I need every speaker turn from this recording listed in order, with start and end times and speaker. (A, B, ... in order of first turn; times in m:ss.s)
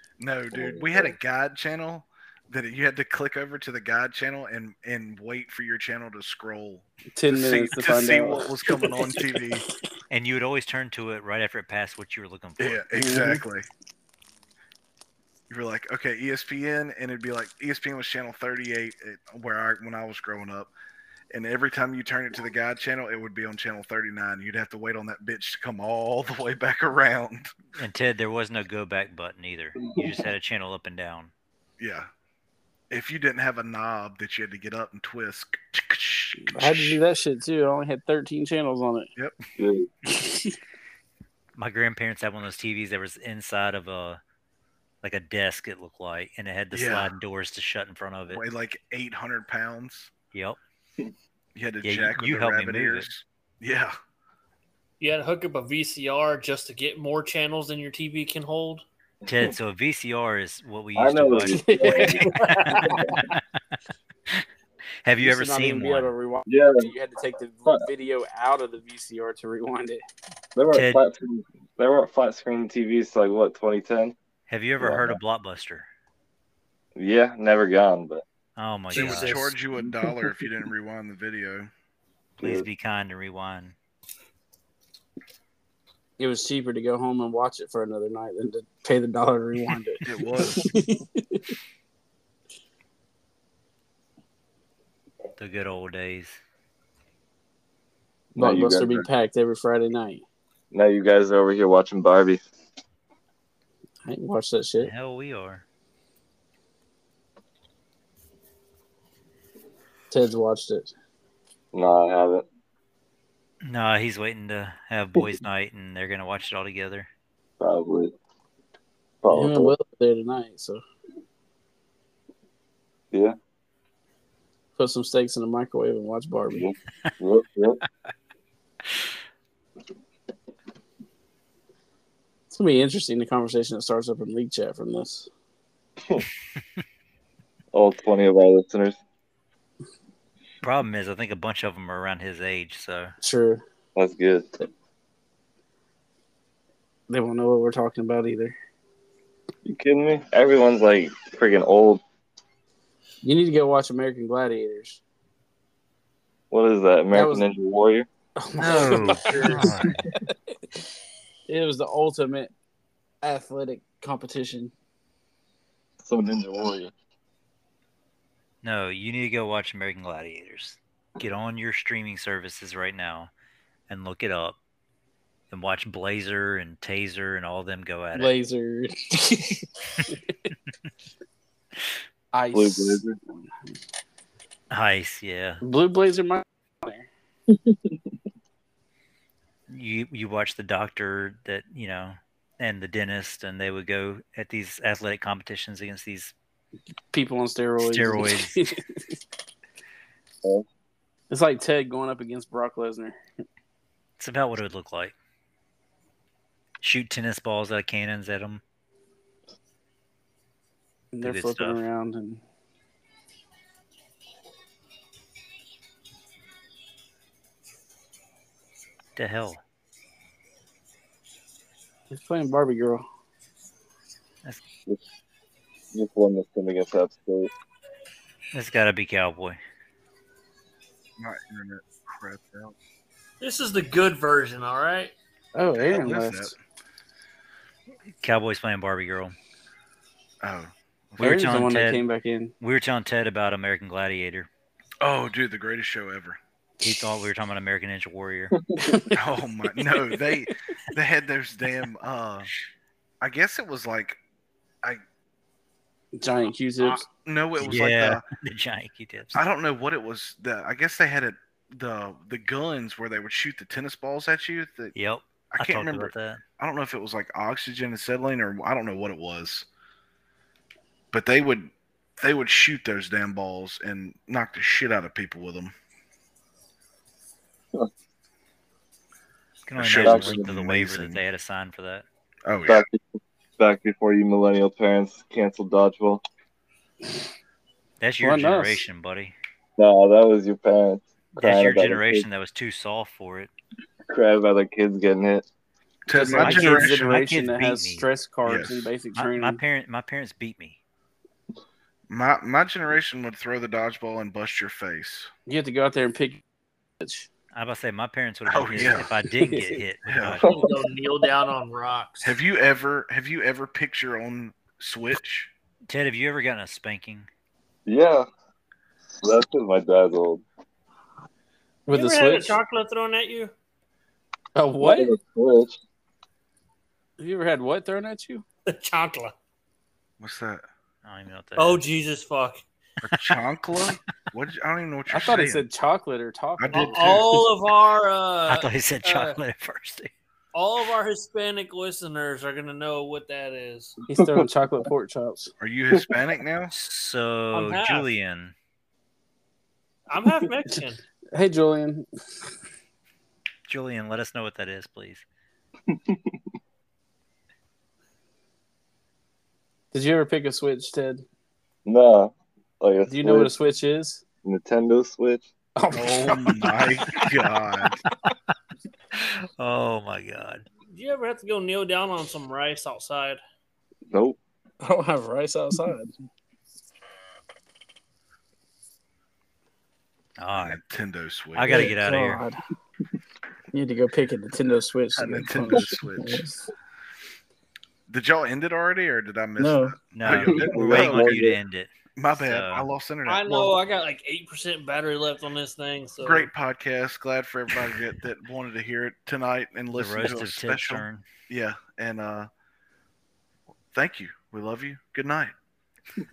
0:00.2-0:09.6 A
0:00.5-0:01.2 B
0:07.2-0:09.1 C
0:10.1-0:12.8 D
0:12.6-0:13.7 A
0:13.0-0:13.4 C
0:15.5-0:20.7 A
0:21.3-0:27.5 A
0:27.8-0:31.3 D
0:29.8-0:30.1 B
0:31.8-0:32.1 A
0:32.9-0:37.0 A
0:36.5-0:39.1 C
0:39.6-0:39.9 B
0:40.1-0:40.6 C
0:41.6-0:44.2 D
0:45.0-0:48.4 D
0:46.7-0:47.1 A
0:48.3-0:50.1 A
0:50.3-0:50.6 D
0:51.6-0:54.0 A
0:51.8-0:53.1 D
0:55.0-0:58.8 E
0:59.3-1:01.7 D
1:01.0-1:03.3 B
1:01.5-1:03.2 C
1:02.2-1:03.0 E
1:05.0-1:06.1 D
1:05.2-1:10.0 C
1:06.5-1:06.9 B
1:10.6-1:14.2 B
1:10.7-1:11.0 D
1:14.5-1:15.9 D
1:14.8-1:15.2 B
1:17.0-1:18.2 B
1:18.6-1:19.4 D
1:18.9-1:19.5 E
1:18.9-1:21.7 A
1:22.4-1:23.8 D
1:22.4-1:22.7 B
1:26.2-1:31.4 C
1:30.0-1:30.7 A
1:35.4-1:36.4 D
1:38.3-1:39.1 B
1:38.4-1:40.2 C
1:40.7-1:42.4 B
1:44.0-1:44.9 C
1:44.8-1:45.6 D
1:50.1-1:50.9 C
1:51.7-1:52.5 B
1:53.6-1:57.1 D
1:57.6-1:58.1 B
1:59.2-1:59.7 B
1:59.3-2:00.8 C
2:04.8-2:06.7 C
2:06.6-2:07.8 B
2:12.5-2:15.3 C
2:17.7-2:19.0 B
2:20.6-2:23.2 D
2:23.2-2:23.6 C
2:24.0-2:24.6 B
2:27.1-2:28.6 C
2:29.6-2:32.0 B
2:33.2-2:35.0 C
2:36.5-2:38.1 B
2:37.1-2:37.5 C
2:38.4-2:39.8 C
2:38.6-2:40.0 D
2:41.5-2:42.5 C
2:43.2-2:44.7 C
2:46.0-2:46.9 B
2:48.6-2:53.3 D
2:53.9-2:54.6 D
2:55.5-2:58.3 D
2:58.1-3:00.1 C
3:02.3-3:03.0 C
3:02.5-3:03.2 B
3:04.7-3:05.6 D
3:05.6-3:07.1 C
3:07.5-3:08.0 B
3:09.7-3:16.3 D
3:17.1-3:19.2 C
3:17.8-3:18.6 D
3:21.3-3:23.2 C
3:24.2-3:25.2 D
3:26.8-3:28.6 D
3:31.1-3:32.4 C
3:31.2-3:31.8 D
3:39.2-3:39.6 D
3:42.1-3:43.0 C
3:45.9-3:47.5 B
3:48.5-3:49.6 D
3:51.2-3:52.8 A
3:53.4-3:55.1 E
3:55.6-3:56.5 C
3:55.8-3:56.6 A
3:58.2-3:59.4 D
4:00.4-4:01.5 A
4:01.2-4:02.5 C
4:01.2-4:02.0 D
4:02.6-4:04.5 D
4:05.0-4:06.4 A
4:06.8-4:08.6 D
4:08.6-4:09.0 B
4:08.8-4:09.1 C
4:09.1-4:12.5 A
4:13.2-4:14.2 A
4:16.2-4:17.1 C
4:17.2-4:18.2 A
4:17.6-4:19.4 D
4:19.3-4:24.9 A
4:25.0-4:26.4 D
4:25.5-4:29.7 A
4:31.1-4:35.7 A
4:39.7-4:42.0 D
4:39.8-4:41.2 A
4:40.0-4:40.5 B
4:42.4-4:42.9 A
4:42.7-4:43.0 B
4:43.6-4:46.2 B
4:48.0-4:49.4 D
4:48.2-4:48.8 C
4:49.8-4:52.2 B
4:51.4-4:53.5 D
4:54.1-4:55.5 B
4:56.1-4:57.0 A
4:56.1-4:59.6 C
4:56.4-4:58.1 D
4:58.4-4:58.9 A
4:59.2-5:00.8 D
5:02.1-5:05.3 A
5:05.5-5:06.4 C
5:07.0-5:07.3 C
5:07.5-5:10.5 D
5:08.5-5:09.1 A
5:09.3-5:09.8 C
5:10.1-5:10.4 A
5:10.4-5:10.9 B
5:10.4-5:12.4 E
5:12.2-5:15.5 A
5:15.9-5:17.3 D
5:17.9-5:18.3 B
5:19.1-5:20.4 B
5:21.9-5:22.6 C
5:21.9-5:23.5 E
5:24.6-5:25.1 C
5:24.8-5:25.8 B
5:27.2-5:28.4 C
5:28.7-5:29.3 E
5:30.2-5:30.6 A
5:31.0-5:31.8 D
5:31.6-5:32.6 E
5:33.0-5:35.7 A
5:33.1-5:33.4 D
5:35.1-5:37.5 C
5:36.6-5:37.2 A
5:36.7-5:39.4 E
5:38.5-5:40.1 D
5:40.5-5:44.0 E
5:44.1-5:45.5 C
5:44.2-5:44.4 B
5:45.6-5:46.7 A
5:46.7-5:48.5 D
5:47.5-5:48.1 E
5:50.1-5:51.0 E
5:51.3-5:52.1 C
5:53.7-5:55.2 D
5:55.9-5:56.4 B
5:59.9-6:01.2 C
6:01.8-6:03.5 B
6:03.1-6:04.2 C
6:04.4-6:05.5 B
6:05.8-6:06.7 C
6:05.9-6:08.0 A
6:09.2-6:10.7 D
6:10.9-6:13.4 E
6:14.1-6:14.4 B
6:14.8-6:16.1 C
6:20.4-6:20.8 D
6:20.6-6:21.9 A
6:21.6-6:22.4 D
6:21.6-6:22.6 C
6:23.7-6:26.7 C
6:25.2-6:26.4 A
6:28.1-6:31.5 A
6:29.6-6:30.0 C
6:30.1-6:32.9 D
6:30.3-6:31.6 B
6:32.2-6:33.8 A
6:33.3-6:36.5 E
6:36.2-6:42.5 A
6:39.9-6:41.2 D
6:43.9-6:45.5 A